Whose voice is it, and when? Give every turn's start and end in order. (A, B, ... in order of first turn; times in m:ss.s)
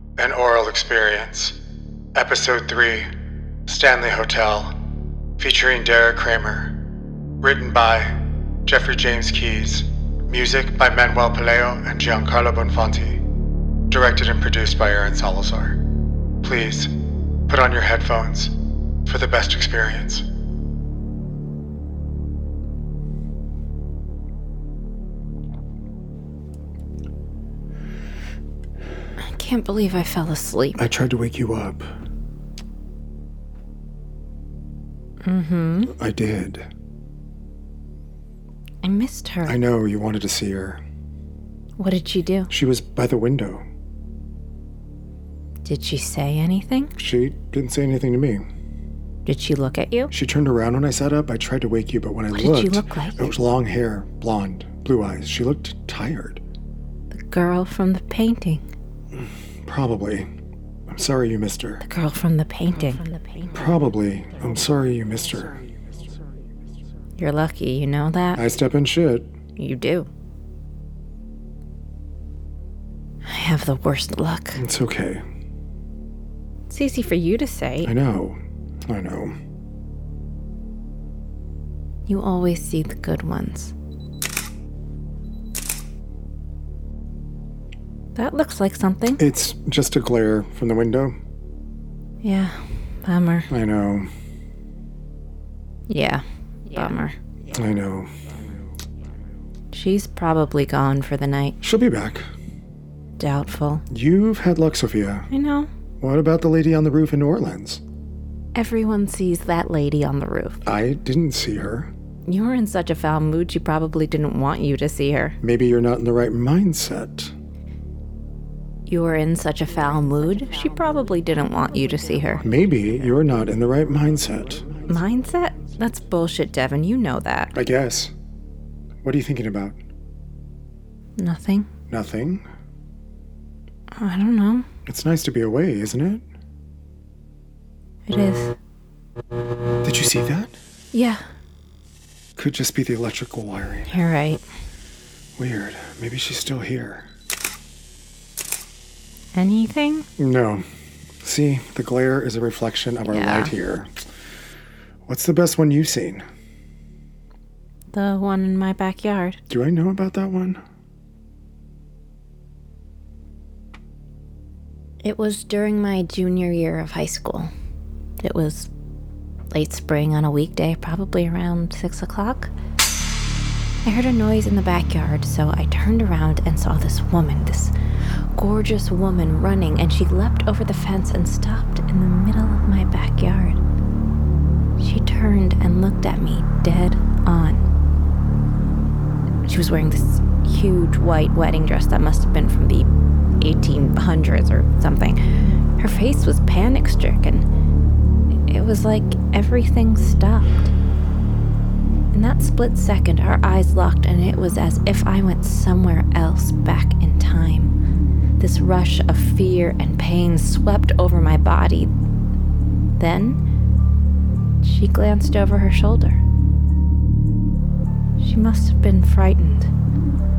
0:00.2-0:01.6 A
0:02.1-0:03.1 A
0:03.6-0:04.8 A
0:05.4-0:06.8 A
0:07.4-0:13.2 A
0:13.9-0:15.8 A
0:16.4-0:16.9 A
0:17.5-0:20.2 A
0:29.2-0:30.8 B
0:30.8-0:31.9 A
0:35.2-0:35.9 B
0:35.9-0:36.7 A
0:38.8-0:39.6 B
0:39.4-0:40.8 A
0:41.8-0:42.5 B
0:42.5-0:43.6 A
0:45.6-0:46.9 B
0:47.0-0:48.4 A
0:49.2-0:50.1 B
0:50.1-0:56.4 A
0:52.3-0:53.4 B
0:57.1-0:58.6 B
0:59.6-1:00.3 A
1:00.9-1:01.8 A
1:01.8-1:03.1 B
1:03.5-1:05.6 A
1:07.2-1:08.5 B
1:08.4-1:09.3 A
1:09.6-1:10.1 B
1:13.2-1:14.6 B
1:14.6-1:15.2 A
1:16.7-1:17.9 B
1:17.8-1:19.3 A
1:22.1-1:23.7 B
1:28.1-1:29.2 B
1:29.2-1:31.2 A
1:32.2-1:33.5 B
1:33.5-1:34.1 A
1:35.9-1:37.2 B
1:37.5-1:38.1 A
1:39.7-1:41.6 B
1:41.6-1:42.3 A
1:43.2-1:43.8 B
1:43.9-1:45.3 A
1:45.3-1:45.7 B
1:46.0-1:47.8 A
1:48.5-1:50.6 B
1:50.6-1:51.9 A
1:52.3-1:55.4 B
1:55.4-1:57.3 A
1:58.9-2:02.4 B
2:02.4-2:04.7 A
2:04.9-2:07.5 B
2:07.5-2:08.1 A
2:09.0-2:09.8 A
2:11.2-2:11.7 B
2:11.9-2:12.4 A
2:14.0-2:14.7 B
2:14.8-2:16.2 A
2:18.1-2:18.6 B
2:19.8-2:20.6 A
2:20.9-2:21.2 B
2:22.4-2:24.0 A
2:23.9-2:24.4 B
2:25.4-2:27.1 A
2:29.3-2:30.1 B
2:30.2-2:30.6 A
2:31.2-2:33.9 A
2:33.0-2:33.5 B
2:35.0-2:36.2 A
2:37.9-2:39.4 B
2:39.5-2:40.6 A
2:45.0-2:47.5 B
2:48.2-2:48.7 B
2:49.5-2:52.5 B
2:53.8-2:57.7 B
2:58.3-3:03.6 B
3:04.8-3:07.6 B
3:09.4-3:12.9 B
3:13.4-3:15.2 B
3:15.8-3:17.4 B
3:18.5-3:20.7 B
3:22.1-3:27.7 B
3:28.4-3:31.9 B
3:33.0-3:33.4 B
3:34.6-3:36.2 B
3:38.2-3:39.7 B